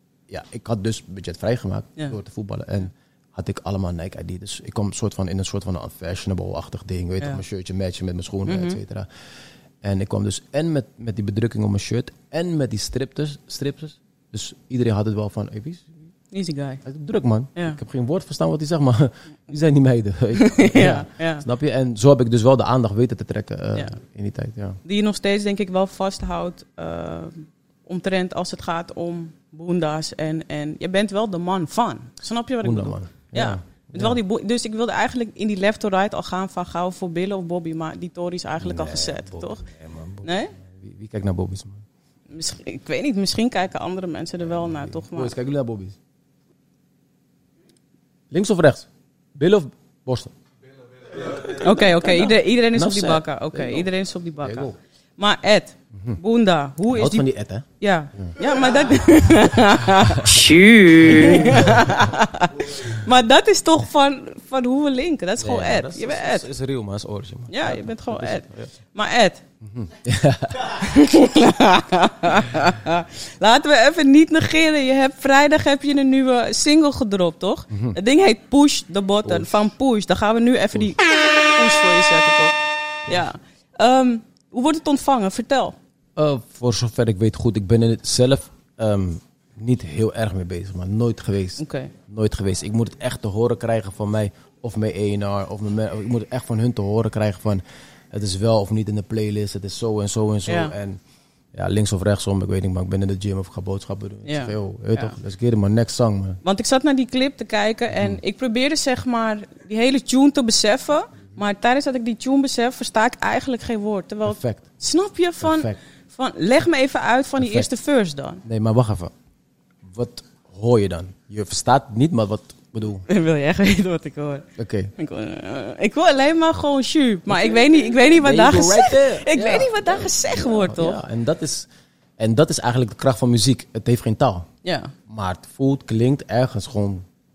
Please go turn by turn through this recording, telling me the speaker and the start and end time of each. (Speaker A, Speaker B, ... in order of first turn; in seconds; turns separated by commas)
Speaker A: 0.3-9.1, Speaker B: 8.4-8.8, Speaker A: 9.8-15.9, Speaker B: 16.3-16.8, Speaker A: 16.8-24.8, Speaker B: 20.3-21.4, Speaker B: 24.8-39.6, Speaker A: 32.6-34.2, Speaker A: 38.6-41.8, Speaker B: 40.2-40.5, Speaker B: 42.3-45.3, Speaker A: 44.4-46.0, Speaker A: 48.3-50.3, Speaker A: 51.2-54.7, Speaker B: 51.2-57.2, Speaker A: 56.9-58.3, Speaker B: 57.8-66.5, Speaker A: 59.9-60.5, Speaker A: 61.1-62.1, Speaker A: 65.4-68.7, Speaker B: 67.5-69.4, Speaker A: 69.6-70.8, Speaker B: 70.6-85.8, Speaker A: 77.7-78.0, Speaker A: 79.2-79.7, Speaker A: 86.2-101.0, Speaker B: 91.6-91.9, Speaker B: 100.5-100.7, Speaker A: 101.5-106.4, Speaker B: 104.3-105.2, Speaker B: 106.4-118.4, Speaker A: 107.9-108.2, Speaker A: 114.2-114.7, Speaker A: 115.4-115.8, Speaker A: 117.4-117.7, Speaker A: 118.4-119.1, Speaker A: 119.8-123.0, Speaker B: 123.1-131.0, Speaker A: 124.6-124.9, Speaker A: 127.3-134.5, Speaker B: 134.6-134.9, Speaker A: 135.1-137.0